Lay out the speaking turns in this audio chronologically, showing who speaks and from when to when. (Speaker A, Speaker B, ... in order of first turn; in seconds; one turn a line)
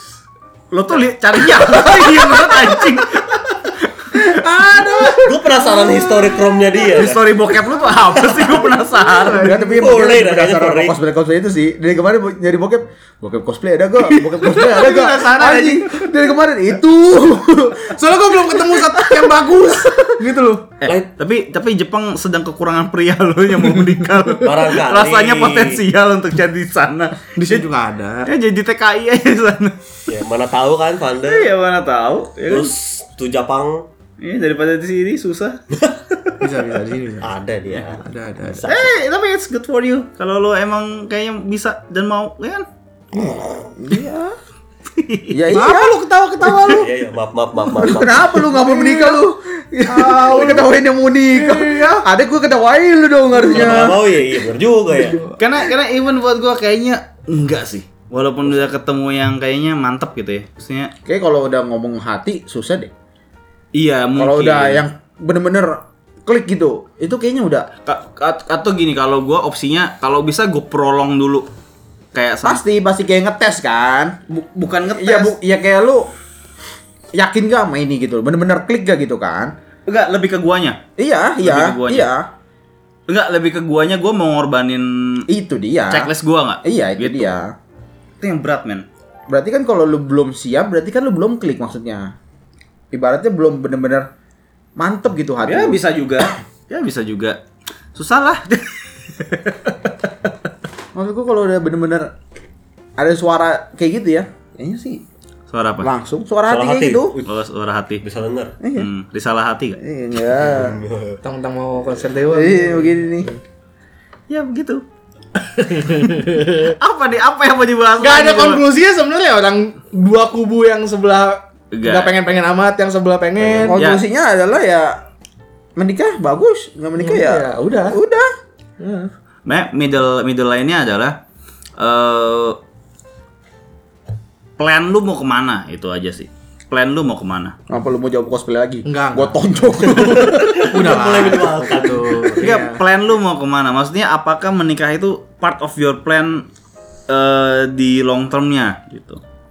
Speaker A: 0.7-4.3
Speaker B: 1.8-2.9
Speaker B: 4.1-6.4
Speaker C: 5.2-7.3
Speaker A: 6.8-9.6
Speaker C: 8.1-8.7
Speaker B: 9.0-9.7
Speaker D: 9.4-18.0
Speaker C: 9.6-10.9
Speaker B: 14.1-16.1
Speaker B: 17.7-20.7
Speaker D: 18.7-19.3
Speaker A: 20.8-27.6
Speaker C: 24.4-25.8
Speaker B: 27.4-28.3
Speaker A: 28.2-29.8
Speaker C: 30.1-31.5
Speaker A: 31.2-32.8
Speaker C: 32.5-33.9
Speaker A: 34.2-35.6
Speaker C: 35.8-36.2
Speaker B: 36.4-38.7
Speaker C: 37.2-38.9
Speaker A: 38.6-42.6
Speaker D: 43.6-44.4
Speaker A: 44.9-45.4
Speaker D: 45.3-46.7
Speaker B: 45.5-46.9
Speaker C: 46.6-48.4
Speaker D: 47.8-54.0
Speaker B: 47.8-49.2
Speaker B: 49.9-50.7
Speaker B: 51.3-52.0
Speaker C: 53.4-55.3
Speaker B: 53.5-53.9
Speaker B: 54.9-55.3
Speaker A: 55.4-60.9
Speaker D: 61.0-62.9
Speaker A: 63.7-64.8
Speaker D: 64.2-67.7
Speaker A: 67.8-71.5
Speaker A: 72.1-72.6
Speaker D: 72.4-74.2
Speaker A: 74.3-75.3
Speaker D: 75.0-76.1
Speaker D: 77.2-79.5
Speaker A: 79.9-80.8
Speaker D: 81.0-82.3
Speaker A: 81.4-82.1
Speaker A: 83.1-85.2
Speaker D: 85.3-86.1
Speaker A: 85.9-87.3
Speaker D: 86.6-87.5
Speaker A: 88.2-88.8
Speaker D: 89.3-92.1
Speaker D: 92.9-94.1
Speaker D: 94.8-95.8
Speaker A: 95.4-97.4
Speaker A: 97.9-99.7
Speaker D: 100.9-102.1
Speaker D: 103.0-105.0
Speaker A: 105.5-105.9
Speaker D: 105.8-107.2
Speaker C: 106.5-107.3
Speaker A: 107.2-108.0
Speaker C: 108.0-108.5
Speaker D: 108.6-108.9
Speaker A: 108.8-109.8
Speaker D: 109.8-110.8
Speaker C: 110.4-111.2
Speaker B: 111.2-113.3
Speaker D: 112.3-113.3
Speaker A: 114.3-114.8
Speaker B: 115.5-116.7
Speaker A: 116.6-118.6
Speaker B: 118.0-123.8
Speaker A: 121.7-122.1
Speaker D: 123.6-125.0
Speaker A: 123.7-124.0
Speaker D: 125.8-128.3
Speaker B: 127.0-128.0
Speaker B: 128.8-129.1
Speaker A: 129.4-131.2
Speaker A: 131.8-132.6
Speaker A: 134.6-137.6
Speaker D: 137.7-140.8
Speaker B: 138.8-142.8
Speaker C: 139.9-142.4
Speaker A: 142.4-146.5
Speaker A: 147.1-149.2